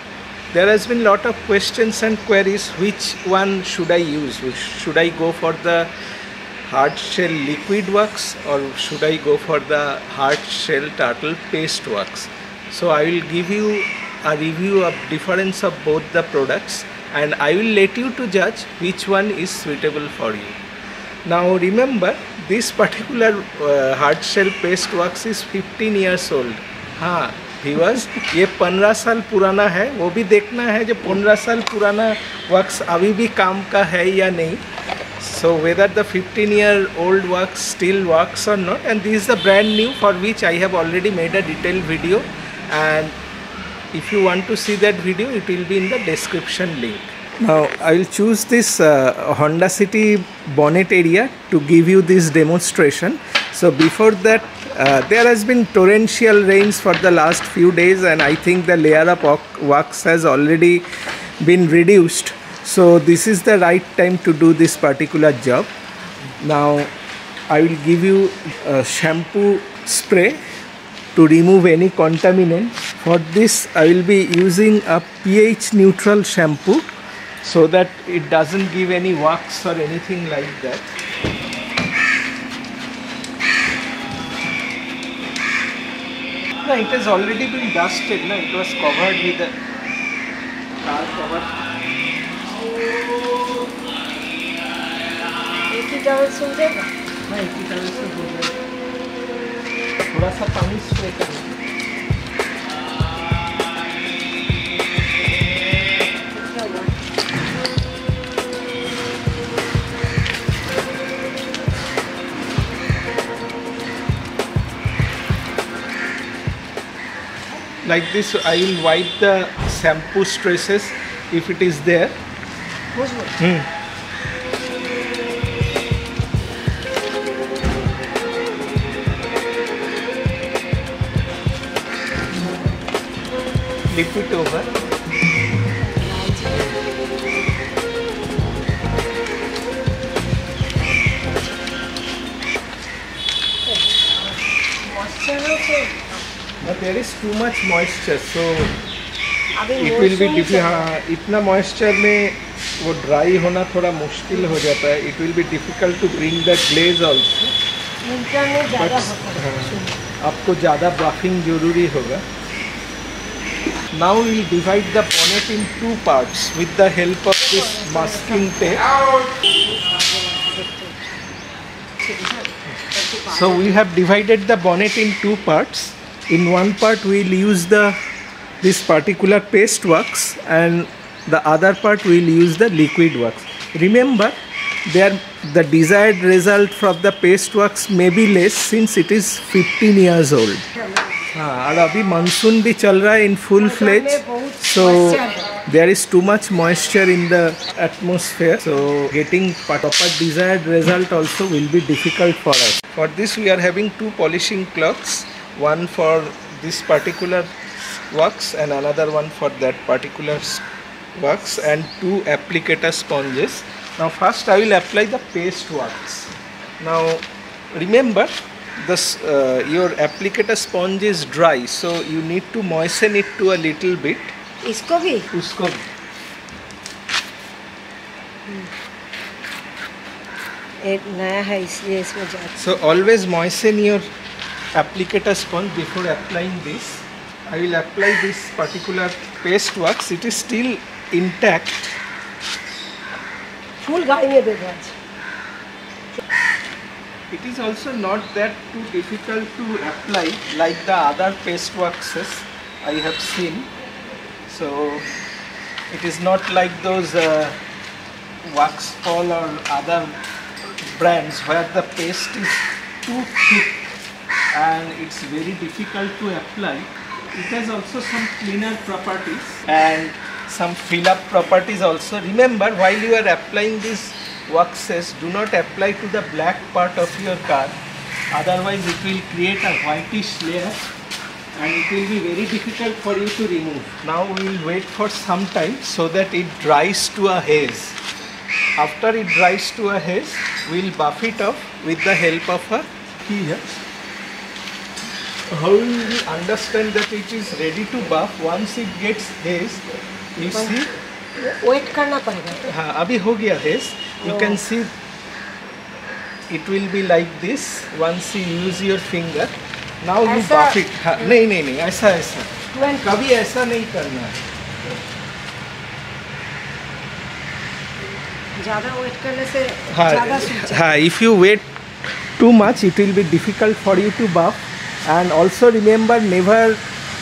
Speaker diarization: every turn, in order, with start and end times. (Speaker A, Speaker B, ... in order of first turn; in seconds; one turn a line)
Speaker A: 0.5-5.9
Speaker A: 6.7-20.6
Speaker A: 21.2-34.6
Speaker A: 35.2-43.2
Speaker A: 43.9-60.9
Speaker A: 61.4-65.7
Speaker A: 66.4-66.9
Speaker A: 67.5-70.4
Speaker A: 71.1-80.9
Speaker A: 86.6-89.5
Speaker A: 90.8-91.5
Speaker B: 95.7-96.9
Speaker A: 97.3-98.6
Speaker A: 100.1-101.6
Speaker B: 106.3-107.0
Speaker A: 117.8-122.1
Speaker B: 122.9-123.3
Speaker A: 123.4-123.7
Speaker A: 133.9-134.7
Speaker B: 135.8-136.8
Speaker B: 143.7-146.2
Speaker A: 146.6-148.7
Speaker B: 149.5-150.9
Speaker A: 149.8-157.5
Speaker B: 158.0-160.0
Speaker A: 158.8-162.2
Speaker A: 163.9-168.9
Speaker B: 167.4-171.1
Speaker B: 172.0-173.8
Speaker A: 173.3-178.0
Speaker A: 178.6-190.6
Speaker B: 190.8-191.2
Speaker A: 191.3-207.5
Speaker B: 193.6-195.6
Speaker A: 208.1-224.3
Speaker B: 224.6-225.3
Speaker A: 225.3-225.8
Speaker B: 228.5-228.7
Speaker B: 230.8-232.6
Speaker A: 232.6-234.0
Speaker A: 234.7-241.9
Speaker B: 243.8-244.9
Speaker A: 247.3-253.7
Speaker A: 254.5-255.1
Speaker A: 255.9-257.6
Speaker A: 258.4-260.2
Speaker A: 260.9-263.8
Speaker A: 264.5-277.8
Speaker A: 278.3-280.9
Speaker A: 281.6-288.0
Speaker A: 288.8-293.8
Speaker A: 295.5-299.8
Speaker A: 300.3-300.9
Speaker B: 300.5-300.8
Speaker B: 301.4-302.7
Speaker A: 302.6-304.9
Speaker B: 304.2-304.6
Speaker A: 306.5-314.4
Speaker B: 310.2-311.4
Speaker B: 312.7-313.2
Speaker B: 318.6-321.0
Speaker A: 319.9-321.7
Speaker A: 322.4-326.8